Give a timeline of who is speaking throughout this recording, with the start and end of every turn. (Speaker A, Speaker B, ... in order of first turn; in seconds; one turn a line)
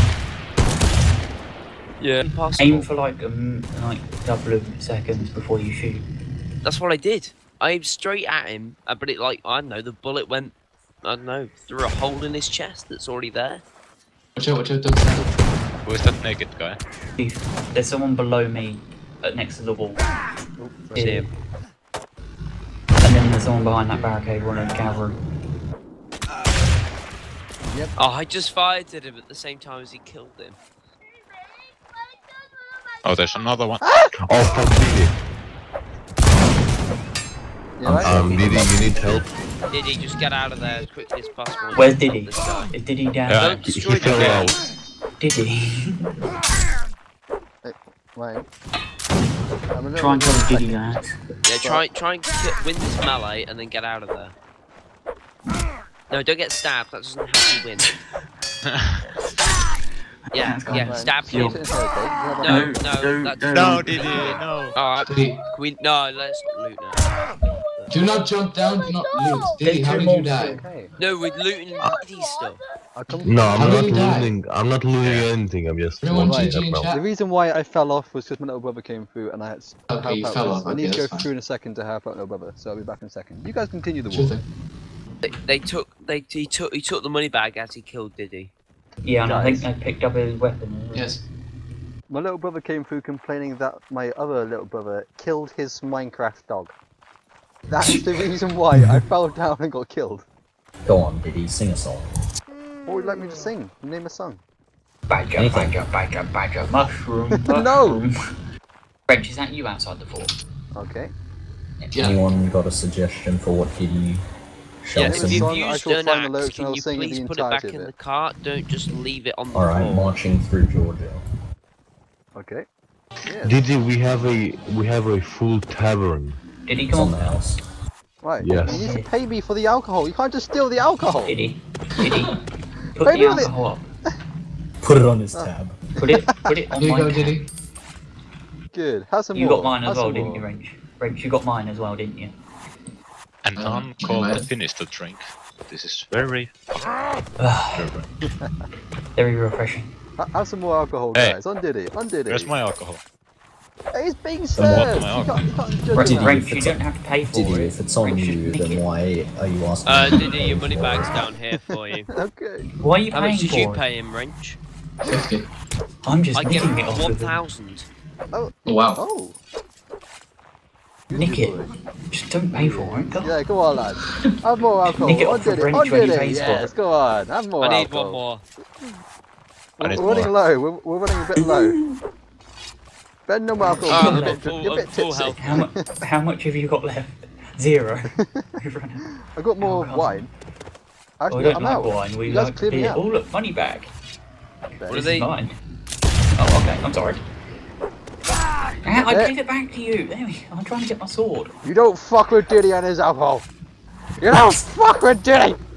Speaker A: 2.0-2.9
Speaker B: 2.6-6.0
Speaker A: 6.6-13.6
Speaker C: 14.3-15.3
Speaker D: 15.8-16.8
Speaker B: 17.2-20.0
Speaker E: 20.6-21.1
Speaker B: 20.9-21.3
Speaker A: 20.9-21.3
Speaker B: 23.0-25.1
Speaker E: 27.6-27.9
Speaker A: 28.0-30.6
Speaker D: 33.0-33.8
Speaker E: 33.8-34.1
Speaker F: 34.2-35.1
Speaker E: 37.8-39.2
Speaker F: 37.9-39.3
Speaker A: 39.7-42.7
Speaker B: 41.7-43.7
Speaker D: 43.3-44.5
Speaker A: 43.4-44.5
Speaker F: 43.7-44.5
Speaker B: 45.2-46.0
Speaker E: 47.6-48.5
Speaker E: 49.7-51.0
Speaker B: 49.9-51.1
Speaker A: 51.4-54.3
Speaker A: 56.1-57.9
Speaker A: 60.3-61.6
Speaker B: 60.4-61.8
Speaker E: 60.7-62.8
Speaker B: 62.4-64.4
Speaker A: 62.4-67.9
Speaker D: 63.5-64.8
Speaker C: 65.0-65.4
Speaker C: 67.9-70.6
Speaker B: 69.6-70.6
Speaker E: 70.4-70.9
Speaker A: 71.0-72.6
Speaker E: 72.9-74.1
Speaker F: 73.2-76.9
Speaker C: 73.5-74.3
Speaker C: 76.0-77.0
Speaker E: 76.2-84.3
Speaker C: 79.9-81.3
Speaker C: 84.1-84.4
Speaker A: 85.2-88.5
Speaker B: 89.0-91.1
Speaker E: 89.2-89.7
Speaker C: 90.9-91.2
Speaker E: 92.1-96.7
Speaker E: 97.7-100.2
Speaker G: 100.8-102.1
Speaker E: 102.8-104.4
Speaker B: 105.1-108.1
Speaker G: 105.4-105.8
Speaker E: 107.5-108.0
Speaker B: 109.1-110.3
Speaker E: 110.7-111.1
Speaker C: 111.9-112.2
Speaker G: 112.0-114.2
Speaker G: 114.8-115.5
Speaker A: 115.0-120.1
Speaker E: 115.0-117.9
Speaker G: 119.5-121.2
Speaker E: 122.3-122.7
Speaker E: 123.3-123.6
Speaker F: 123.4-126.4
Speaker B: 126.7-127.2
Speaker G: 126.9-127.6
Speaker E: 128.2-131.3
Speaker F: 128.4-128.8
Speaker B: 128.6-129.1
Speaker B: 131.2-132.4
Speaker B: 132.9-133.8
Speaker E: 133.0-133.5
Speaker G: 134.8-135.7
Speaker B: 136.0-137.4
Speaker C: 136.8-137.5
Speaker E: 138.7-140.4
Speaker B: 139.3-142.3
Speaker D: 143.4-146.5
Speaker C: 143.6-144.5
Speaker B: 147.4-147.9
Speaker D: 147.7-148.0
Speaker E: 148.4-148.6
Speaker B: 149.2-149.9
Speaker E: 150.2-152.5
Speaker D: 151.1-151.4
Speaker D: 152.3-153.0
Speaker E: 153.9-156.4
Speaker G: 154.6-155.0
Speaker D: 154.7-155.4
Speaker B: 155.9-158.8
Speaker G: 155.9-161.2
Speaker A: 159.8-162.1
Speaker E: 161.6-162.7
Speaker B: 162.8-163.8
Speaker A: 163.1-164.6
Speaker C: 165.0-165.4
Speaker B: 166.0-167.4
Speaker A: 166.3-167.9
Speaker E: 168.3-169.4
Speaker C: 168.6-169.0
Speaker E: 171.1-171.7
Speaker B: 171.1-173.3
Speaker E: 172.5-178.2
Speaker B: 175.0-176.7
Speaker A: 177.6-178.4
Speaker E: 179.8-181.8
Speaker D: 179.8-180.3
Speaker B: 181.4-181.9
Speaker E: 183.3-185.8
Speaker B: 183.6-184.4
Speaker A: 183.9-185.6
Speaker B: 185.4-189.1
Speaker E: 189.3-190.3
Speaker B: 189.6-190.2
Speaker E: 191.2-193.0
Speaker B: 191.3-193.9
Speaker E: 194.8-195.1
Speaker A: 194.9-195.3
Speaker B: 194.9-195.5
Speaker B: 196.3-197.2
Speaker B: 198.8-201.5
Speaker E: 198.9-199.3
Speaker E: 201.6-203.4
Speaker E: 204.2-205.6